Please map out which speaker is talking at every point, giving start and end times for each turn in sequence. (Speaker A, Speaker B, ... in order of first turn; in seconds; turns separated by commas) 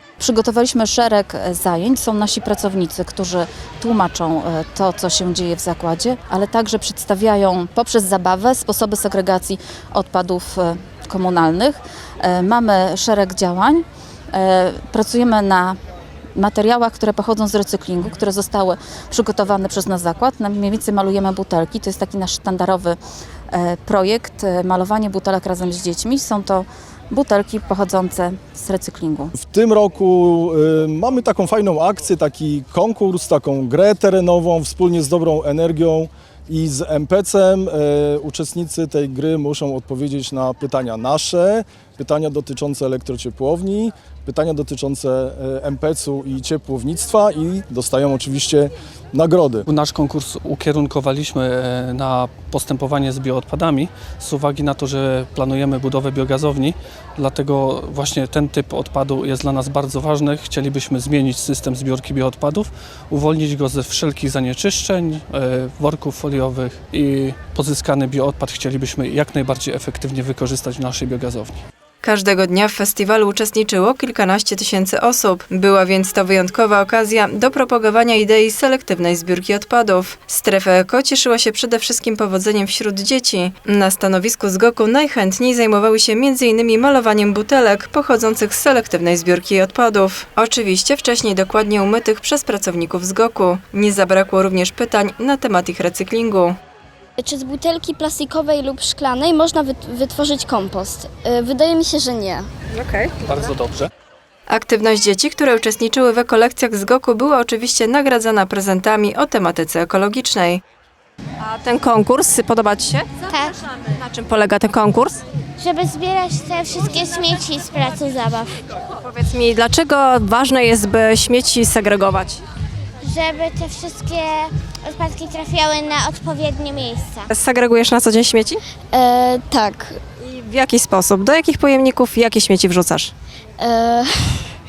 Speaker A: 0.2-15.8, Speaker A: 16.4-23.0, Speaker A: 23.5-29.3, Speaker B: 29.3-49.6, Speaker C: 49.6-71.6, Speaker D: 72.0-96.5, Speaker E: 97.2-102.4, Speaker F: 102.7-103.1, Speaker C: 103.2-103.9, Speaker D: 104.5-110.6, Speaker F: 111.4-113.1, Speaker G: 113.2-113.5, Speaker F: 114.0-115.2, Speaker G: 115.6-118.6, Speaker F: 119.1-122.4, Speaker G: 123.0-127.3, Speaker F: 127.3-128.6, Speaker E: 128.9-129.9, Speaker F: 130.2-133.1, Speaker E: 133.6-134.4